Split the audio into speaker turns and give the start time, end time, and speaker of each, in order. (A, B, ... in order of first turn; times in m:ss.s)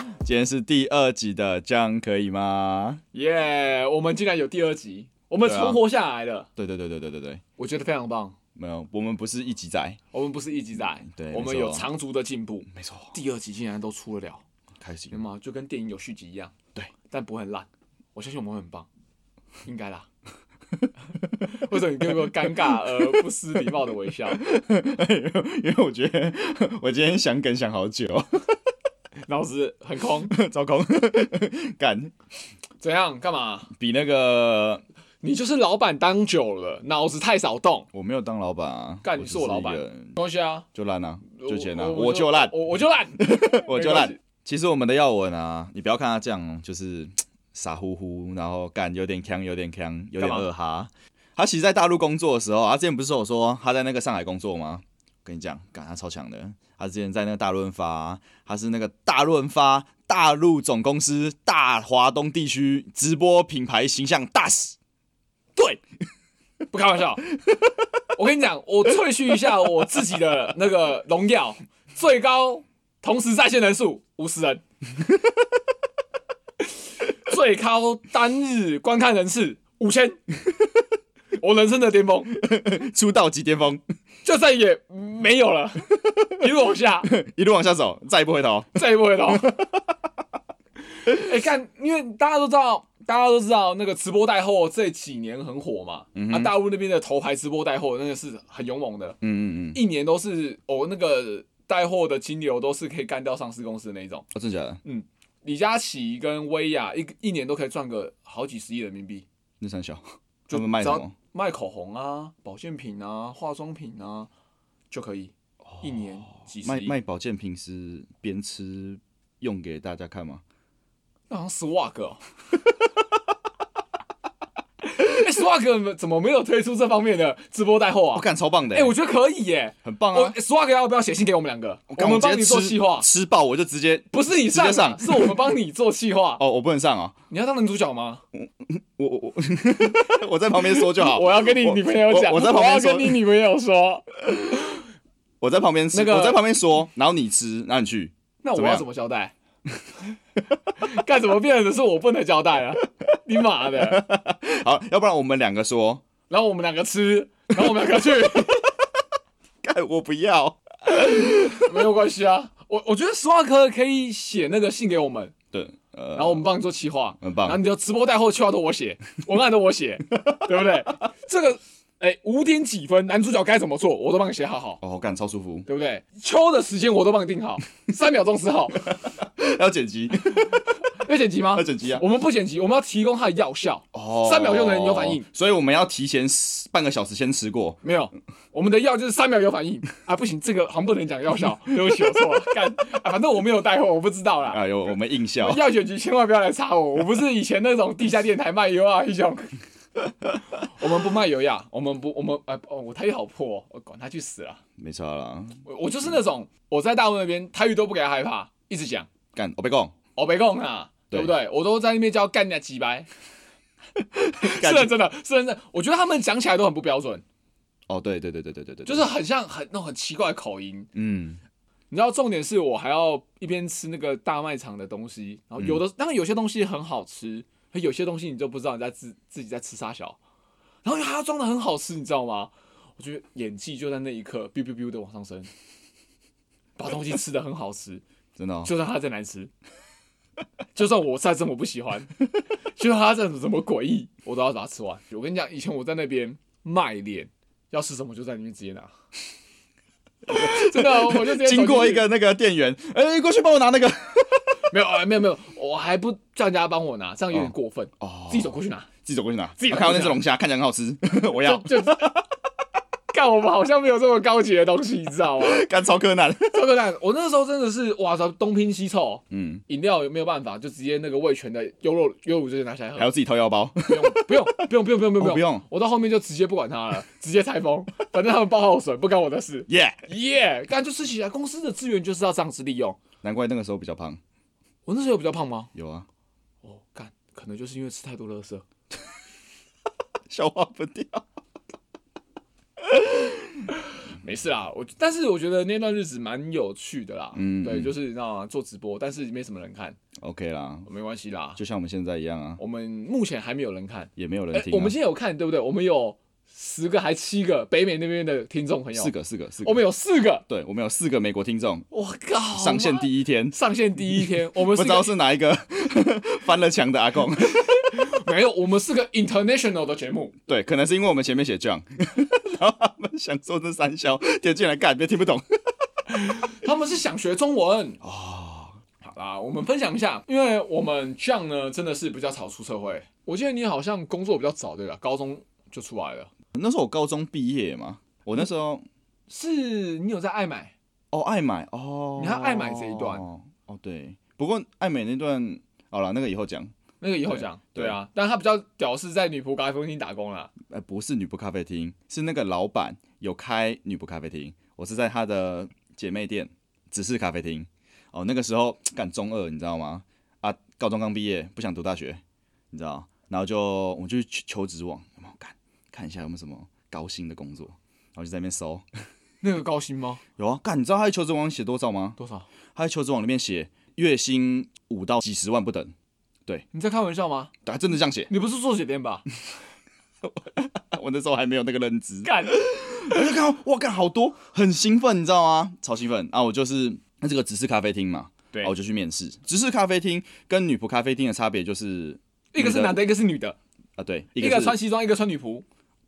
0:00.2-0:03.0 A
0:03.1-0:06.5 B
0:05.4-0:05.8 A
0:06.6-0:07.4 A
0:07.6-0:08.4 B
0:08.6-0:10.0 A
0:10.1-0:14.4 B
0:11.1-0:11.9 A
0:12.7-0:13.1 A
0:14.8-0:15.2 A
0:15.1-0:16.5 B
0:17.1-0:18.9 B
0:19.6-0:20.1 B
0:21.2-0:21.5 A
0:21.5-0:24.4 B
0:22.2-0:23.6 A
0:24.3-0:28.5 A
0:29.2-0:30.3 B
0:30.3-0:32.1 A
0:32.8-0:33.7 B
0:33.8-0:34.8 A
0:35.2-0:37.9 B
0:37.9-0:40.2 A
0:39.0-0:40.7 B
0:40.7-0:42.6 A
0:41.3-0:44.2 B
0:43.2-1:04.8 A
0:50.2-0:50.5 B
1:06.7-1:07.3 B
1:08.2-1:14.6 B
1:17.2-1:20.2 B
1:21.4-1:22.3 B
1:22.3-1:23.8 A
1:24.2-1:27.1 B
1:27.1-1:28.8 A
1:28.8-1:29.6 B
1:29.3-1:29.7 A
1:31.0-1:39.2 B
1:36.2-1:36.6 A
1:39.2-1:39.8 A
1:39.7-1:44.3 B
1:44.3-1:44.8 A
1:44.8-1:49.3 B
1:49.6-1:51.1 A
1:50.5-1:54.3 B
1:54.9-1:57.0 B
1:55.7-1:56.0 A
1:56.6-2:00.4 A
2:01.3-2:02.2 B
2:04.8-2:13.1 B
2:08.1-2:08.9 A
2:09.8-2:10.4 A
2:11.9-2:15.4 A
2:14.1-2:16.4 B
2:16.4-2:17.2 A
2:17.3-2:18.2 B
2:18.3-2:23.2 A
2:20.6-2:24.8 B
2:25.4-2:28.8 A
2:25.9-2:26.4 B
2:28.4-2:29.3 B
2:30.8-2:34.0 B
2:33.8-2:36.0 A
2:36.3-2:38.7 B
2:37.6-2:38.4 A
2:39.6-2:41.7 A
2:40.9-2:45.3 B
2:45.5-2:46.4 A
2:46.2-2:54.8 B
2:47.2-2:47.6 A
2:54.8-2:55.7 A
2:55.7-2:58.9 B
2:58.9-3:00.6 A
3:01.0-3:05.3 B
3:01.5-3:02.0 A
3:03.9-3:07.8 A
3:07.8-3:14.6 B
3:14.5-3:15.6 A
3:15.4-3:19.6 B
3:20.6-3:24.6 B
3:24.8-3:25.6 A
3:25.6-3:29.1 B
3:29.4-3:29.9 A
3:30.2-3:33.1 B
3:34.0-3:34.9 A
3:34.4-3:37.2 B
3:37.9-3:39.1 A
3:38.8-3:40.9 B
3:40.9-3:41.4 A
3:41.9-3:50.2 B
3:50.8-3:55.5 B
3:56.8-3:58.0 B
3:58.4-3:58.7 A
3:58.6-3:59.5 B
4:00.8-4:02.1 B
4:02.8-4:08.9 B
4:10.3-4:14.4 A
4:10.3-4:12.1 B
4:14.7-4:18.9 B
4:17.3-4:18.5 A
4:19.0-4:22.2 A
4:19.6-4:20.2 B
4:21.3-4:22.2 B
4:23.1-4:25.6 B
4:25.4-4:26.6 A
4:26.5-4:33.1 B
4:29.3-4:29.6 A
4:33.0-4:34.7 A
4:33.9-4:43.0 B
4:35.2-4:35.6 A
4:39.7-4:40.0 A
4:43.2-4:44.2 A
4:44.9-4:45.7 B
4:45.7-4:46.1 A
4:46.6-4:48.6 B
4:50.3-4:51.2 A
4:52.8-4:53.7 A
4:54.2-5:00.0 B
4:57.4-4:57.9 A
5:00.2-5:00.9 A
5:00.9-5:01.6 B
5:01.6-5:02.6 A
5:02.6-5:10.4 B
5:04.2-5:05.0 A
5:09.0-5:09.8 A
5:10.5-5:11.9 A
5:11.9-5:15.1 B
5:12.5-5:13.6 A
5:14.2-5:17.6 A
5:17.7-5:20.3 B
5:20.5-5:25.4 A
5:26.1-5:28.0 B
5:28.0-5:28.8 A
5:29.0-5:36.3 B
5:36.5-5:38.8 A
5:39.3-5:40.7 B
5:41.1-5:46.7 A
5:42.2-5:43.2 B
5:47.0-5:50.5 B
5:47.3-5:48.0 A
5:50.7-6:02.2 A
6:02.7-6:08.8 A
6:09.4-6:10.2 B
6:10.4-6:12.2 A
6:12.2-6:12.5 B
6:12.8-6:15.9 A
6:16.7-6:17.5 B
6:17.6-6:18.3 A
6:18.3-6:19.2 B
6:20.2-6:33.0 A
6:22.2-6:22.6 B
6:32.5-6:33.6 B
6:34.0-6:34.8 A
6:34.4-6:35.6 B